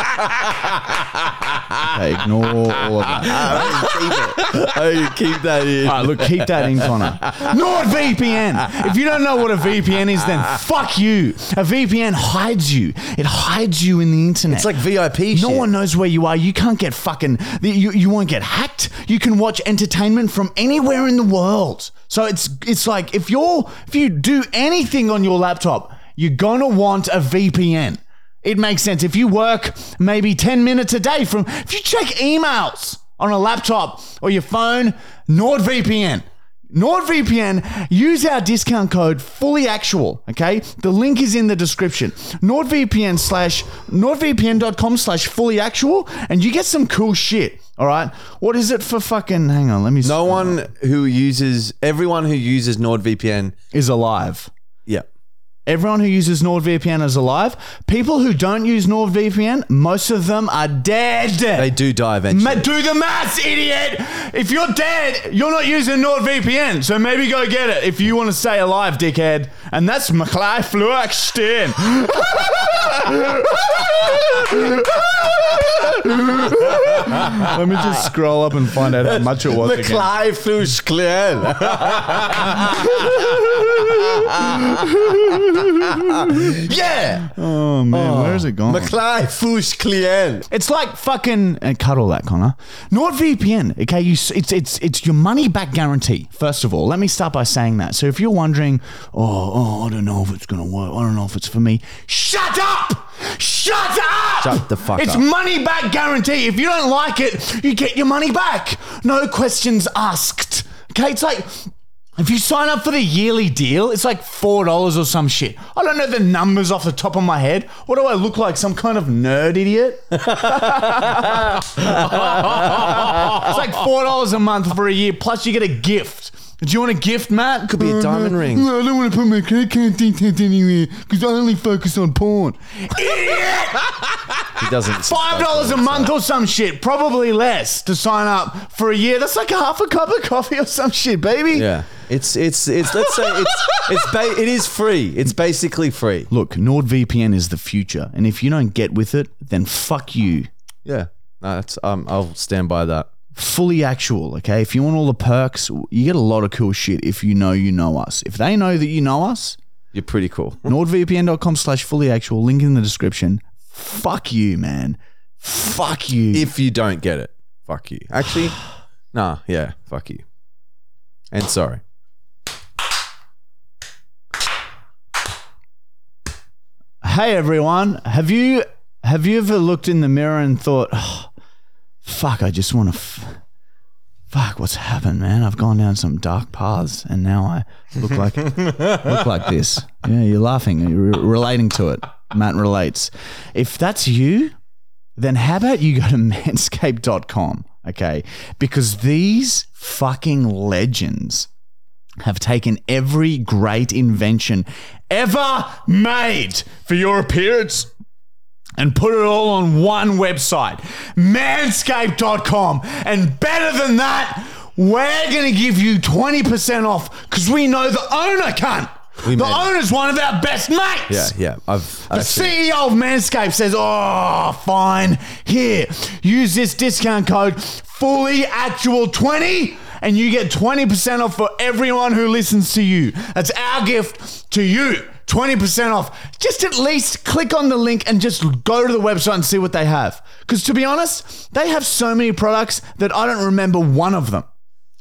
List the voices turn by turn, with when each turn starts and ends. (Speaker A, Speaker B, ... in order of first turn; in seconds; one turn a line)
Speaker A: 1.9-3.8
Speaker B: 3.2-7.5
Speaker A: 5.8-14.8
Speaker B: 14.5-15.7
Speaker A: 15.3-50.6
Speaker B: 50.0-53.5
Speaker A: 53.7-54.5
Speaker A: 55.7-61.7
Speaker B: 61.6-62.7
Speaker A: 62.3-80.1
Speaker B: 79.0-85.2
Speaker A: 83.0-86.7
Speaker B: 85.8-87.3
Speaker A: 87.3-89.0
Speaker B: 87.9-90.5
Speaker A: 90.5-141.7
Speaker B: 104.4-105.2
Speaker B: 127.7-128.7
Speaker B: 134.6-136.1
Speaker B: 141.5-146.3
Speaker A: 146.3-150.5
Speaker B: 150.9-153.1
Speaker A: 153.3-159.6
Speaker B: 159.9-160.7
Speaker A: 160.7-166.5
Speaker B: 166.3-168.6
Speaker B: 169.1-170.2
Speaker B: 171.3-171.8
Speaker A: 177.0-181.3
Speaker A: 182.0-183.4
Speaker A: 184.3-194.6
Speaker A: 195.2-201.5
Speaker A: 202.2-207.9
Speaker A: 208.8-221.3
Speaker B: 219.2-219.7
Speaker B: 221.1-222.6
Speaker A: 222.1-244.5